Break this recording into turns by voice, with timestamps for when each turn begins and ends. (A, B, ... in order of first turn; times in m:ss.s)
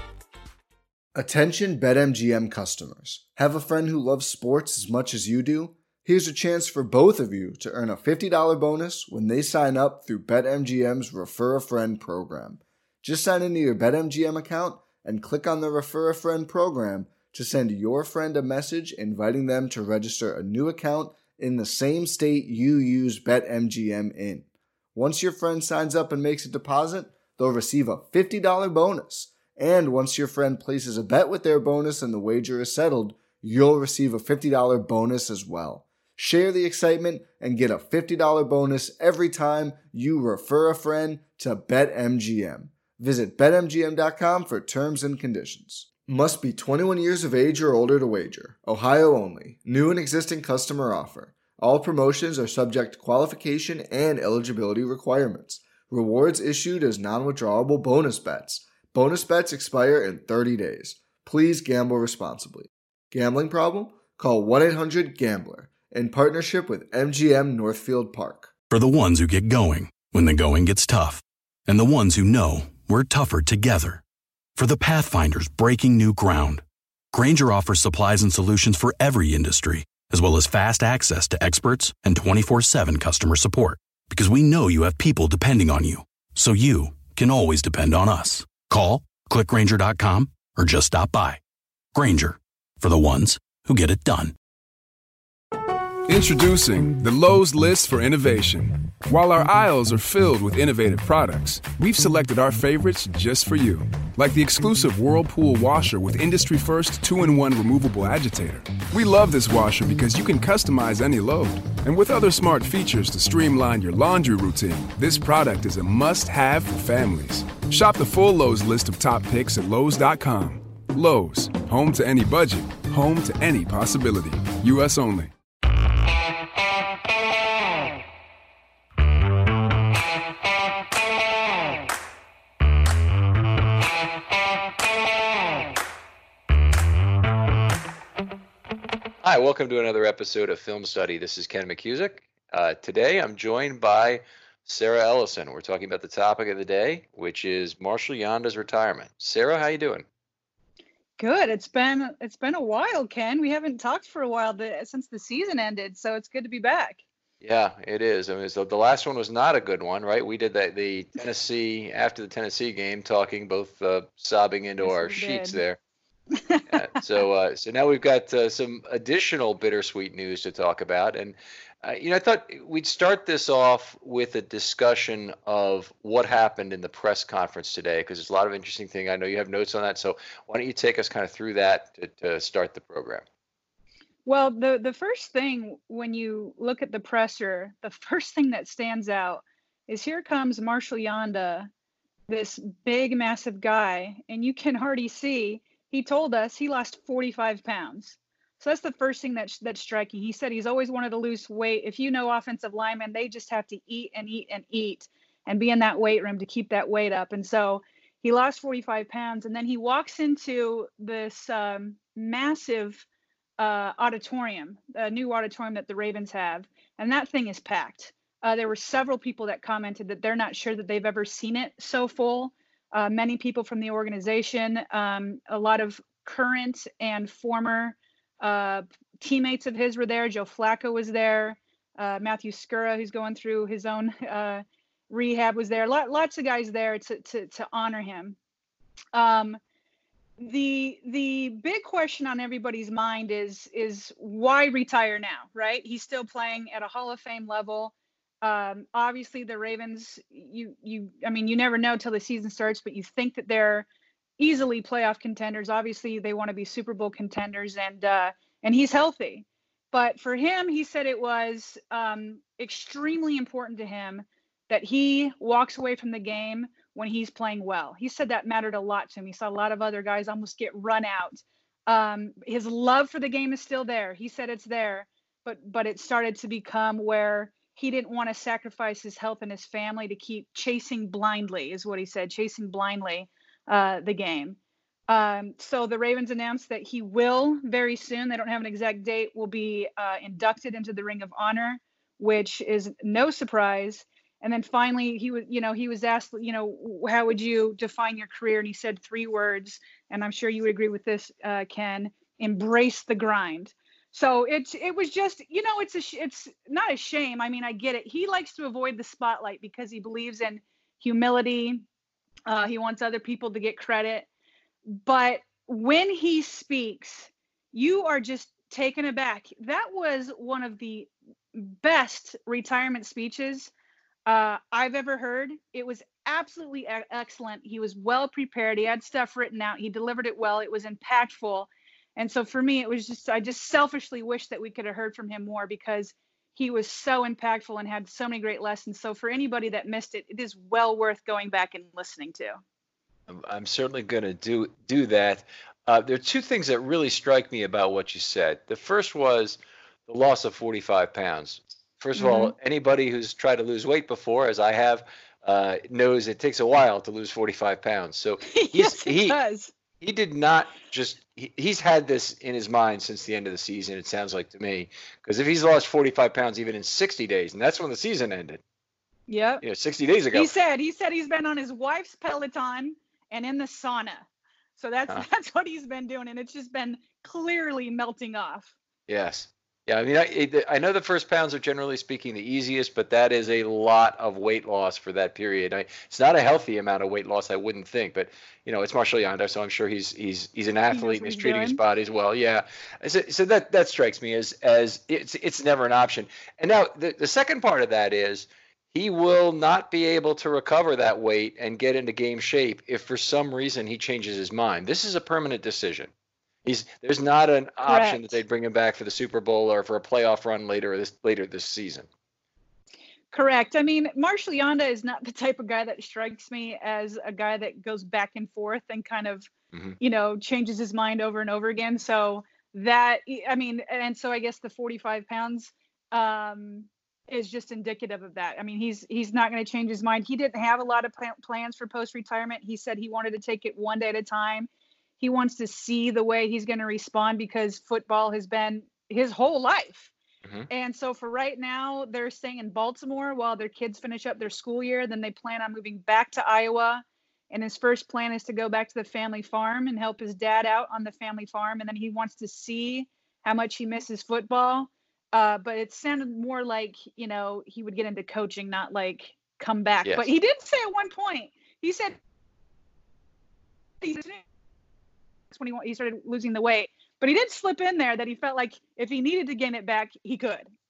0:01.2-1:08.5 A
1:08.7-1:14.0 B
1:14.6-1:31.4 B
1:31.9-1:34.3 B
1:36.1-2:05.3 C
2:19.2-2:30.1 D
2:31.2-2:37.0 E
2:37.4-2:45.8 D
2:44.8-2:45.6 E
2:46.3-2:46.8 E
2:46.7-3:03.2 D
3:04.3-3:11.7 E
3:12.3-3:33.1 E
3:33.6-3:58.4 E
3:59.1-3:59.6 E
4:00.4-4:13.9 E
4:14.4-4:44.6 E
4:45.1-5:11.8 E
5:12.5-5:14.3 E
5:14.9-5:23.7 E
5:24.3-5:42.6 E
5:43.3-5:59.4 D
5:52.2-5:52.5 E
5:58.5-5:59.7 E
6:00.0-6:08.6 D
6:09.3-6:09.6 E
6:09.6-6:10.5 D
6:10.3-6:14.3 E
6:14.8-6:18.7 E
6:19.1-6:46.1 D
6:30.9-6:31.8 E
6:46.6-6:52.1 D
6:47.9-6:48.3 E
6:53.3-7:20.1 E
7:20.7-7:42.2 E
7:44.0-7:44.4 E
7:45.5-7:50.7 E